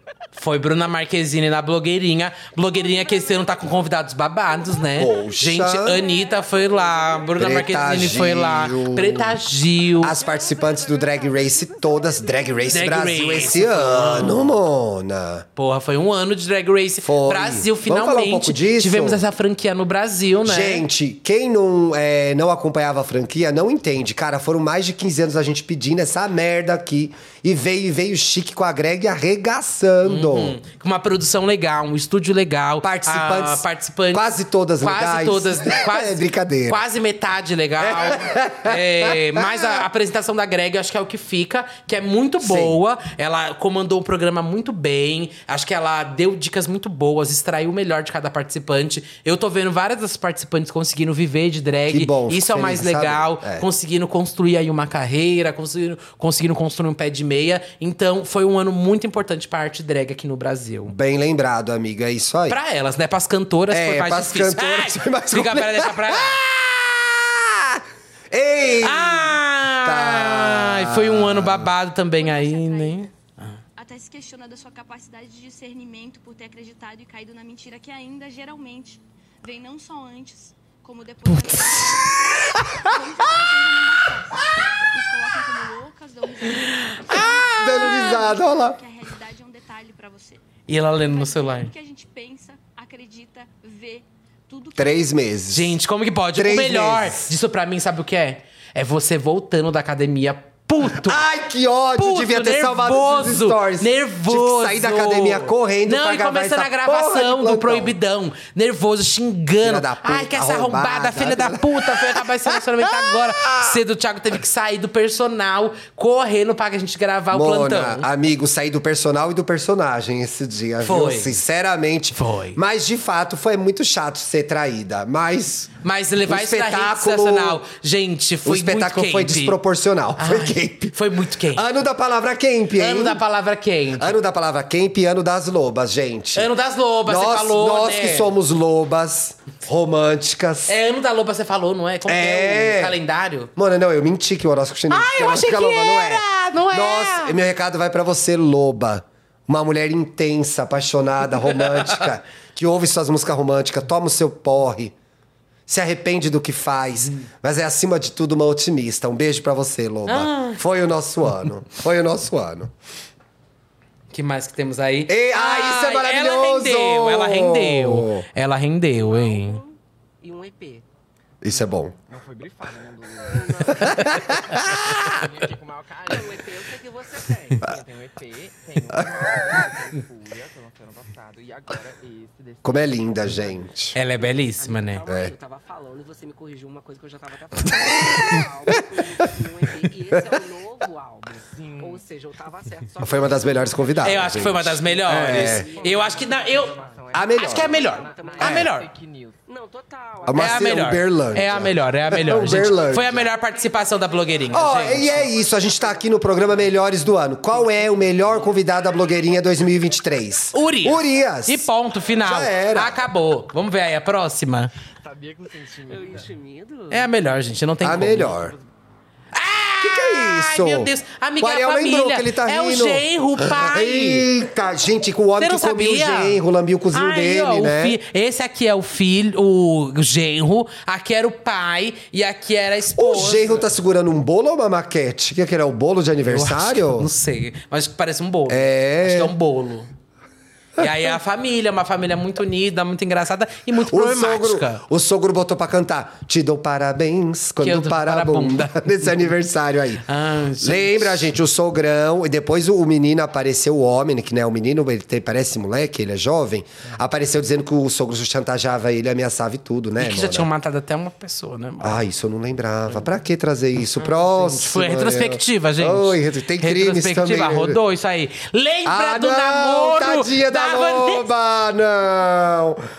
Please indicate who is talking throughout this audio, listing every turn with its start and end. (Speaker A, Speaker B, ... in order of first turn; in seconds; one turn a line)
Speaker A: 0.3-10.2
Speaker B: 3.0-3.6
Speaker C: 5.0-6.0
Speaker B: 5.9-6.7
Speaker D: 6.2-7.2
Speaker C: 7.4-9.4
Speaker C: 10.0-15.5
Speaker D: 10.2-11.2
Speaker B: 10.2-10.7
Speaker B: 11.3-12.8
Speaker A: 12.7-14.5
Speaker A: 15.6-20.9
Speaker C: 17.0-19.2
Speaker C: 20.4-30.6
Speaker A: 30.1-34.2
Speaker C: 32.8-36.8
Speaker A: 34.8-60.9
Speaker C: 37.8-39.8
Speaker C: 42.4-42.8
Speaker C: 51.9-53.7
Speaker C: 60.9-62.6
Speaker A: 62.5-66.4
Speaker C: 63.7-71.7
Speaker A: 68.8-73.6
Speaker B: 72.2-73.1
Speaker B: 73.8-90.5
Speaker A: 86.7-88.2
Speaker C: 87.5-88.8
Speaker A: 90.7-91.7
Speaker B: 91.0-95.1
Speaker C: 94.8-95.8
Speaker A: 95.5-101.2
Speaker C: 96.3-97.3
Speaker C: 100.8-108.0
Speaker A: 102.0-118.1
Speaker C: 109.6-113.8
Speaker C: 117.3-125.7
Speaker A: 120.8-121.4
Speaker A: 122.1-122.6
Speaker A: 125.8-129.6
Speaker C: 126.3-127.6
Speaker C: 128.4-131.0
Speaker A: 130.2-131.7
Speaker C: 131.5-133.2
Speaker A: 132.8-134.2
Speaker C: 134.0-136.5
Speaker A: 136.3-138.3
Speaker C: 137.1-140.7
Speaker A: 140.7-143.5
Speaker C: 142.1-143.0
Speaker C: 143.6-154.9
Speaker A: 144.9-147.4
Speaker A: 151.6-152.1
Speaker C: 155.7-162.7
Speaker A: 160.1-160.6
Speaker A: 164.1-169.6
Speaker C: 165.1-168.2
Speaker D: 169.0-170.8
Speaker C: 171.4-171.9
Speaker E: 172.1-176.5
Speaker D: 173.3-174.2
Speaker C: 173.8-175.1
Speaker D: 176.1-177.7
Speaker E: 177.5-183.6
Speaker C: 182.6-184.0
Speaker A: 183.9-185.0
Speaker D: 184.2-198.7
Speaker C: 185.1-185.3
Speaker C: 187.7-189.4
Speaker E: 191.3-192.1
Speaker C: 193.0-195.7
Speaker A: 194.0-196.7
Speaker E: 194.8-199.4
Speaker C: 197.1-197.8
Speaker A: 197.3-198.9
Speaker C: 198.4-198.7
Speaker D: 199.5-200.8
Speaker C: 200.3-203.3
Speaker A: 200.3-205.3
Speaker D: 203.2-206.7
Speaker C: 204.5-211.7
Speaker E: 207.6-208.5
Speaker D: 208.0-208.3
Speaker A: 210.5-214.7
Speaker C: 212.2-213.0
Speaker E: 215.0-216.3
Speaker D: 215.9-217.1
Speaker A: 216.9-218.3
Speaker C: 217.8-218.6
Speaker A: 219.3-224.3
Speaker C: 219.8-228.0
Speaker A: 225.4-226.4
Speaker A: 226.9-233.7
Speaker C: 232.9-237.1
Speaker A: 236.3-239.9
Speaker C: 238.5-239.3
Speaker A: 240.8-244.8
Speaker C: 243.7-250.0
Speaker A: 247.6-249.1
Speaker A: 250.1-251.3
Speaker C: 250.6-260.5
Speaker A: 260.0-262.0
Speaker C: 261.8-267.8
Speaker A: 264.0-271.3
Speaker C: 268.9-272.8